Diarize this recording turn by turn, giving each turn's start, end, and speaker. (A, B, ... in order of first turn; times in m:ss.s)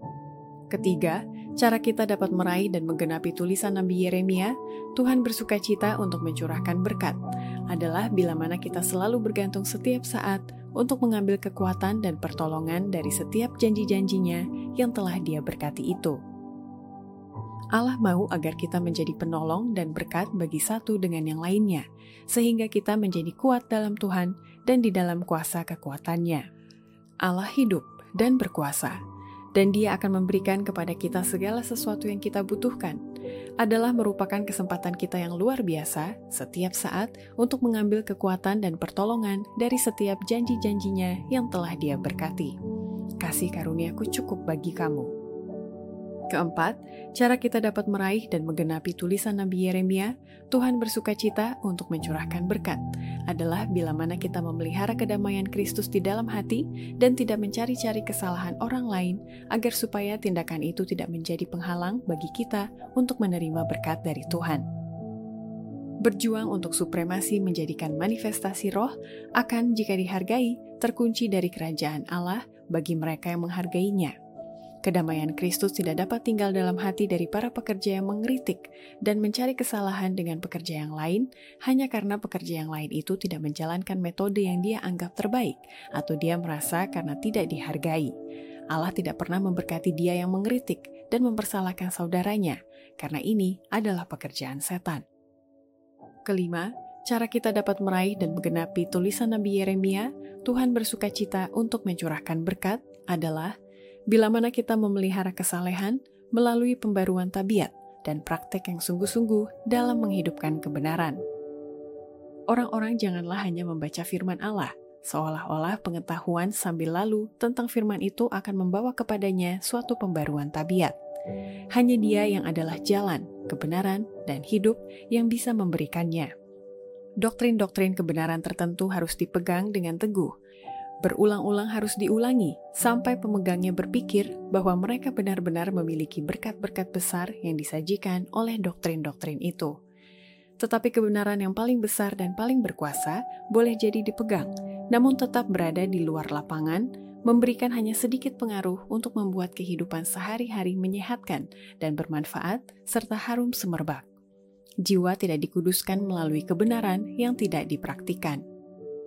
0:00.7-0:16.2 A
0:17.7-0:26.4 A
0:27.2-0:29.0 A
0:29.6-0:33.0 A
0:33.6-0:42.6 A
0:43.2-0:45.1 A
0:46.3-1:04.6 A
1:06.0-1:14.2 A
1:14.8-1:28.1 A
1:28.7-1:35.0 A
1:36.3-1:43.5 A
1:44.1-1:51.2 A
1:52.5-2:01.0 A
2:01.7-2:06.3 A
2:07.2-2:10.3 A
2:11.0-2:19.8 A
2:20.6-2:34.0 A
2:34.8-2:38.4 A